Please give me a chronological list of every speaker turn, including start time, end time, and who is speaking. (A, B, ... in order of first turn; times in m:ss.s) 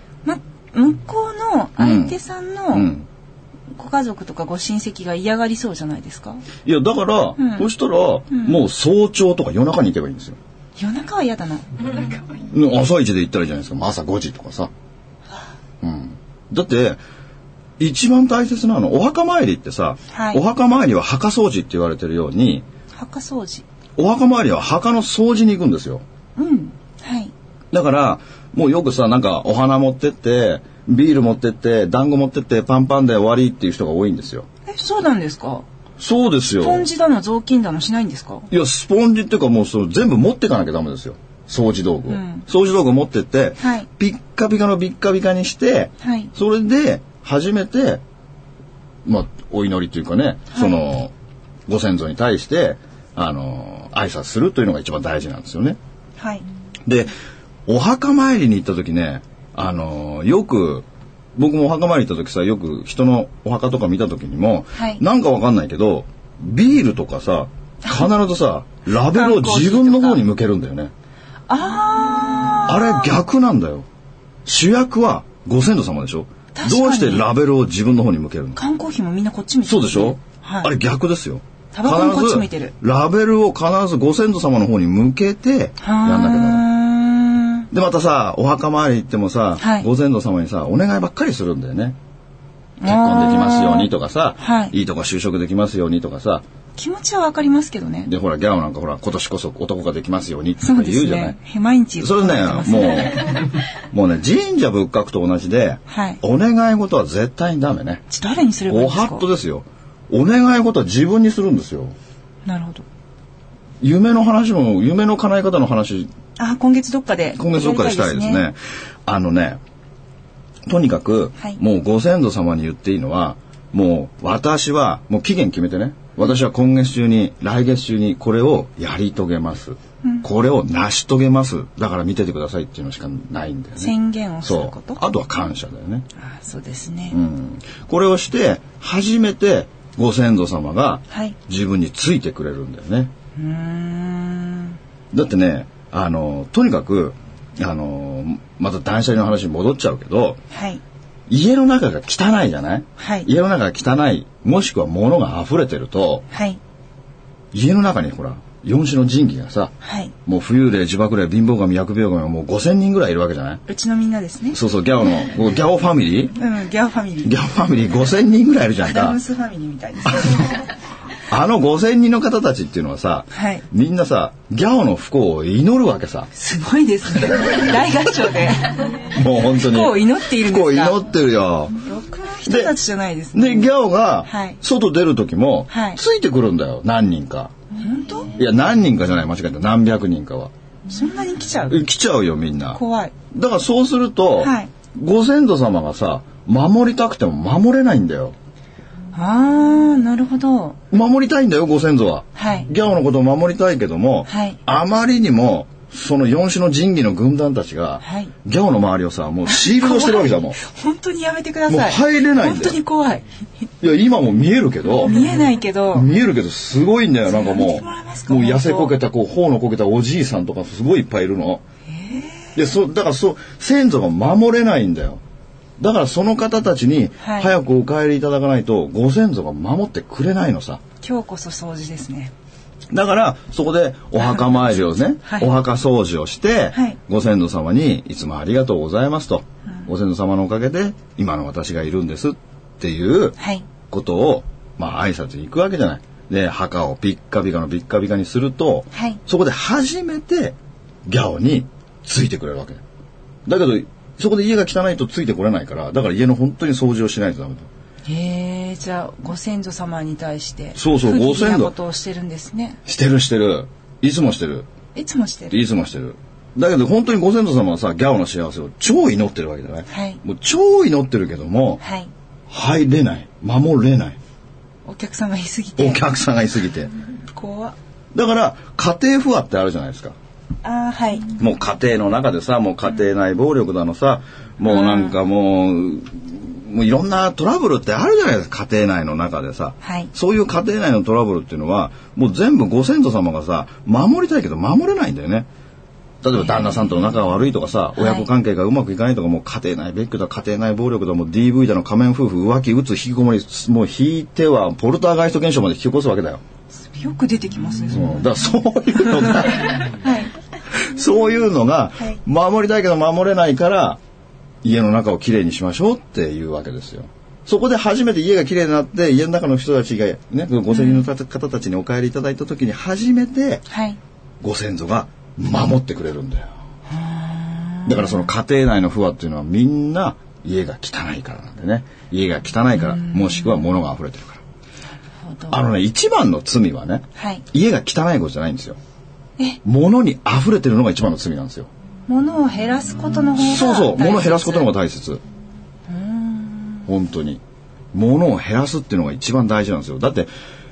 0:00.2-0:02.9 A
0:01.8-0:02.2 B
0:02.7-0:03.1 B
0:03.7-0:06.4 A
0:06.6-0:10.4 B
0:07.4-0:07.7 A
0:08.3-0:08.6 A
0:10.8-0:12.1 A
0:12.5-0:14.7 B
0:15.8-0:17.0 B
0:17.8-0:22.6 B
0:20.1-0:20.4 A
0:22.9-0:23.6 A
0:24.0-0:26.0 B
0:26.4-0:27.3 A
0:27.7-0:34.4 B
0:34.6-0:35.6 A
0:36.0-0:36.9 B
0:36.6-0:38.5 A
0:38.5-0:48.0 B
0:42.1-0:42.4 A
0:43.6-0:43.9 A
0:46.0-0:46.3 A
0:49.0-0:51.1 B
0:50.5-0:50.8 A
0:51.7-0:55.8 B
0:56.2-0:56.4 A
0:56.8-0:57.1 B
0:57.6-1:10.9 B
1:04.7-1:05.0 A
1:09.0-1:10.2 A
1:11.5-1:13.1 A
1:12.6-1:13.8 B
1:14.4-1:18.6 B
1:16.5-1:17.3 A
1:18.5-1:20.7 A
1:19.6-1:26.7 B
1:21.7-1:22.7 A
1:25.8-1:27.7 A
1:27.7-1:32.0 B
1:29.6-1:29.9 A
1:32.8-1:34.7 A
1:32.8-1:36.4 B
1:36.8-1:38.1 A
1:38.0-1:41.4 B
1:40.6-1:43.3 A
1:42.0-1:48.0 B
1:45.9-1:46.2 A
1:48.1-1:49.3 A
1:48.7-1:52.0 B
1:52.4-1:52.8 A
1:53.8-1:56.1 B
1:56.4-1:58.4 A
1:57.4-1:59.6 B
2:00.7-2:16.1 B
2:13.8-2:15.0 A
2:16.2-2:17.2 A
2:17.1-2:23.1 B
2:21.1-2:21.4 A
2:23.4-2:24.8 A
2:25.1-2:30.4 B
2:30.5-2:30.8 A
2:31.3-2:36.2 B
2:33.0-2:33.3 A
2:36.3-2:36.6 A
2:37.5-2:39.7 B
2:39.8-2:40.1 A
2:40.2-2:43.6 B
2:43.7-2:44.6 A
2:44.5-2:46.4 B
2:46.3-2:47.3 A
2:47.2-2:49.2 B
2:48.8-2:50.6 A
2:51.3-2:56.3 B
2:53.3-2:53.6 A
2:56.3-3:01.0 A
2:59.1-3:01.8 B
3:01.8-3:03.7 A
3:02.4-3:02.8 B
3:03.3-3:07.5 B
3:04.2-3:04.6 A
3:05.7-3:06.0 A
3:07.7-3:08.3 A
3:08.3-3:10.5 B
3:10.9-3:11.8 A
3:11.7-3:12.8 B
3:12.7-3:13.1 A
3:13.3-3:18.3 B
3:14.4-3:14.7 A
3:19.1-3:20.8 A
3:20.9-3:30.6 B
3:22.3-3:22.7 A
3:24.3-3:24.6 A
3:28.0-3:28.3 A
3:29.4-3:33.3 A
3:31.7-3:32.8 B
3:33.8-3:35.3 B
3:35.0-3:36.1 A
3:35.9-3:41.6 B
3:37.2-3:39.0 A
3:41.9-3:42.6 A
3:42.5-3:45.2 B
3:45.8-3:50.8 B
3:47.2-3:47.5 A
3:51.0-3:52.3 A
3:52.9-4:03.4 B
3:54.2-3:54.6 A
3:55.2-3:55.5 A
4:03.4-4:03.6 A
4:03.9-4:12.8 B
4:08.9-4:09.2 A
4:13.4-4:17.7 B
4:18.0-4:22.8 A
4:20.8-4:21.7 B
4:22.8-4:24.7 B
4:24.9-4:25.6 A
4:25.5-4:31.8 B
4:29.9-4:30.2 A
4:31.8-4:32.1 A
4:32.5-4:34.2 B
4:34.8-4:36.0 A
4:35.8-4:36.9 B
4:37.3-4:37.8 A
4:38.1-4:40.1 B
4:40.6-4:41.3 A
4:41.4-4:55.5 B
4:44.6-4:45.2 A
4:49.8-4:50.1 A
4:56.2-5:06.4 B
4:56.4-4:57.1 A
4:58.0-4:58.3 A
5:06.8-5:08.3 A
5:07.9-5:09.9 B
5:09.2-5:10.3 A
5:10.7-5:14.0 B
5:14.6-5:23.6 B
5:20.7-5:21.0 A
5:23.7-5:24.0 A
5:24.4-5:26.5 B
5:26.9-5:28.3 A
5:27.8-5:34.4 B
5:32.8-5:33.6 A
5:35.2-5:35.6 A
5:35.5-5:38.8 B
5:37.2-5:37.4 A
5:39.6-5:41.7 B
5:42.1-5:44.7 A
5:43.4-5:45.2 B
5:45.9-5:46.9 A
5:46.9-5:47.4 B
5:47.9-5:50.3 B